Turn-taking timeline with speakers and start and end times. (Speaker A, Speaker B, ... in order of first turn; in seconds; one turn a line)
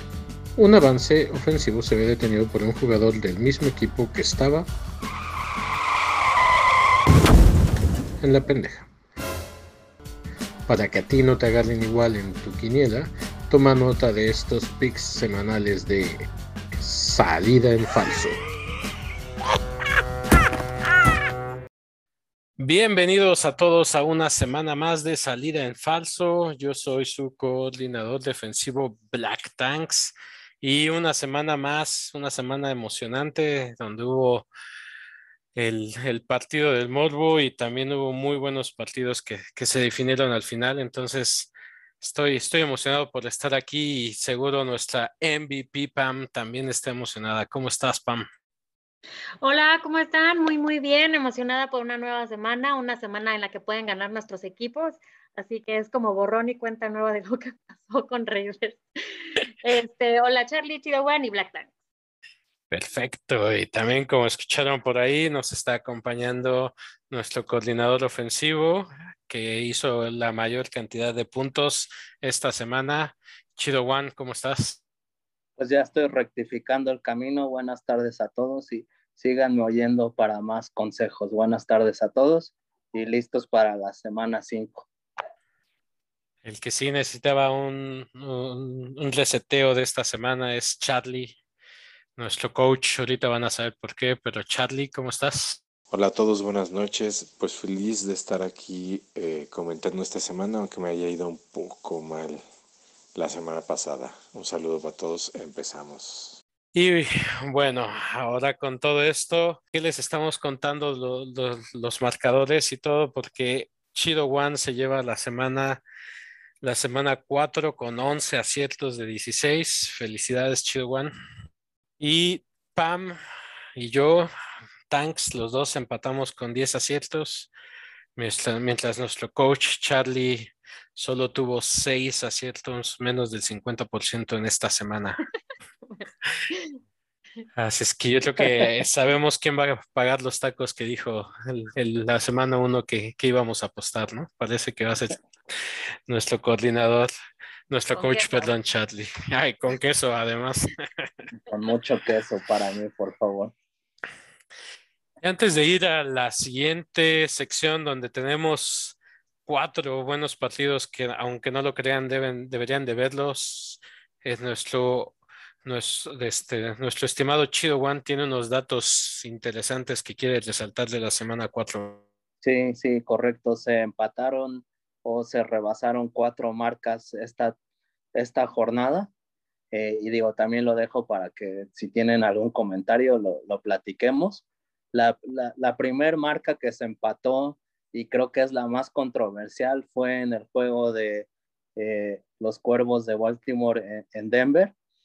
Speaker A: 0.6-4.7
Speaker A: 8.2-8.9
Speaker A: 10.7-18.4
Speaker A: 22.6-34.5
Speaker A: 35.5-48.3
Speaker B: 49.4-61.7
Speaker A: 62.7-74.8
Speaker C: 75.6-84.9
Speaker A: 86.4-91.4
Speaker A: 92.2-95.6
Speaker D: 95.9-102.4
Speaker D: 103.2-106.4
Speaker A: 106.7-115.8
Speaker A: 116.6-121.1
Speaker A: 122.0-123.2
Speaker A: 123.8-124.3
Speaker A: 124.9-127.5
Speaker A: 128.2-135.2
Speaker B: 135.9-136.8
Speaker A: 137.6-145.2
Speaker A: 146.1-147.1
Speaker A: 147.7-151.1
Speaker B: 147.9-148.5
Speaker C: 151.5-153.5
Speaker A: 155.2-172.1
Speaker C: 172.4-177.6
Speaker C: 178.2-179.1
Speaker C: 179.7-194.7